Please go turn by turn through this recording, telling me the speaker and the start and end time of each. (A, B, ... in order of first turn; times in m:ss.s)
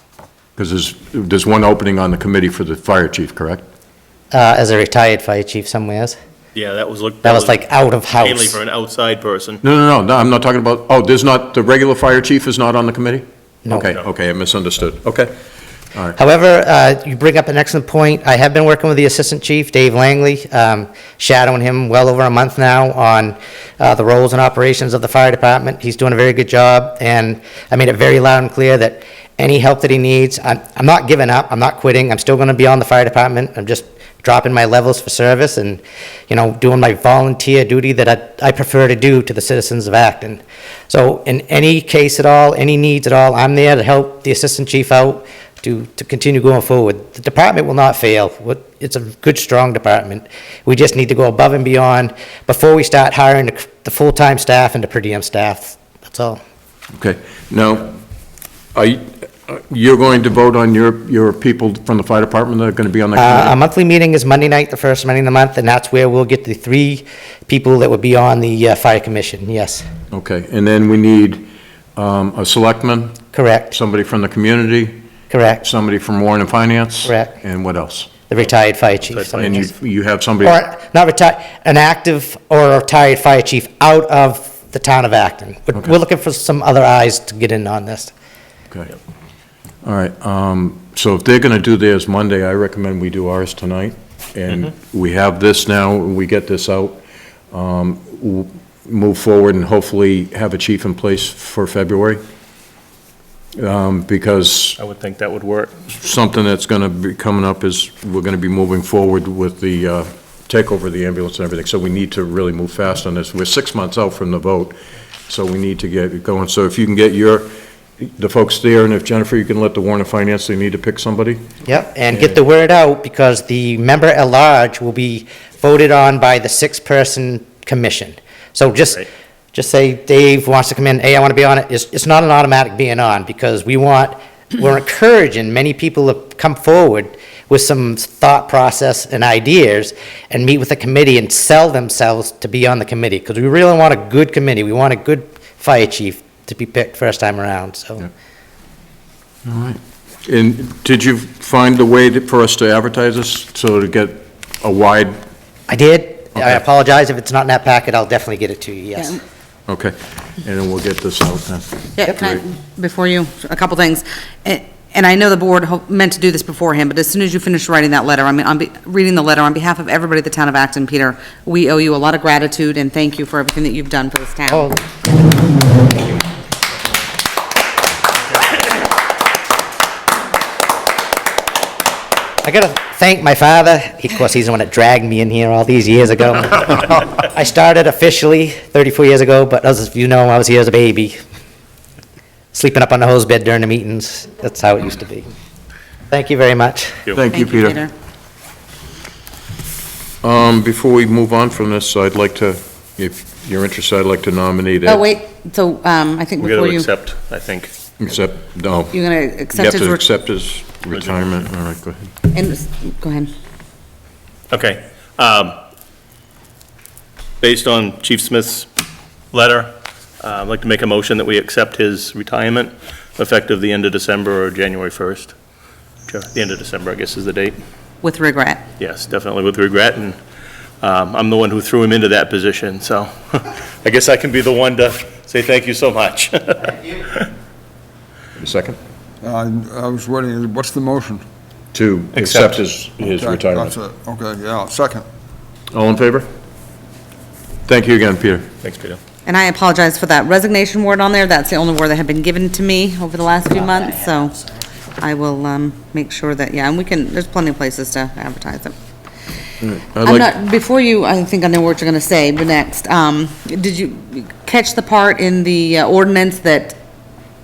0:00.6-0:03.6 A
0:04.3-0:06.2 B
0:06.6-0:07.6 C
0:07.2-0:08.6 B
0:08.2-0:09.6 C
0:09.6-0:15.3 A
0:13.6-0:13.9 B
0:16.2-0:56.4 B
0:57.0-0:57.9 A
0:58.7-1:03.6 A
1:03.2-1:09.8 B
1:10.1-1:15.0 A
1:13.3-1:13.8 B
1:15.3-1:15.6 B
1:15.6-1:18.1 A
1:17.0-1:17.3 B
1:18.3-1:19.7 B
1:19.1-1:19.4 C
1:19.4-1:20.6 A
1:20.4-1:28.1 B
1:29.8-1:37.0 A
1:37.5-1:42.2 A
1:43.6-1:44.8 A
1:44.8-1:45.9 C
1:46.0-1:54.8 A
1:55.3-2:01.5 A
2:01.6-2:28.1 B
2:29.4-2:35.2 A
2:35.7-2:39.2 B
2:39.7-2:42.4 A
2:42.0-2:54.7 D
2:54.5-2:54.8 B
3:02.4-3:11.2 B
3:12.5-3:15.3 B
3:16.1-3:17.0 B
3:17.1-3:17.8 A
3:17.3-3:17.9 D
3:20.2-3:25.1 A
3:24.8-3:26.9 D
3:26.4-3:27.7 C
3:28.0-3:32.1 A
3:28.9-3:30.0 D
3:32.3-3:33.3 D
3:34.5-3:35.6 C
3:37.4-3:38.7 C
3:39.3-3:45.3 C
3:46.1-3:47.6 C
3:48.0-3:48.7 D
3:48.8-3:50.2 C
3:50.8-3:57.3 C
3:58.4-3:58.8 A
3:59.2-4:01.2 E
4:01.7-4:03.8 A
4:02.1-4:02.6 C
4:03.0-4:05.0 E
4:05.7-4:06.3 A
4:07.7-4:08.5 A
4:08.6-4:09.0 C
4:09.2-4:14.4 D
4:15.0-4:18.7 D
4:19.6-4:20.4 A
4:20.0-4:26.8 D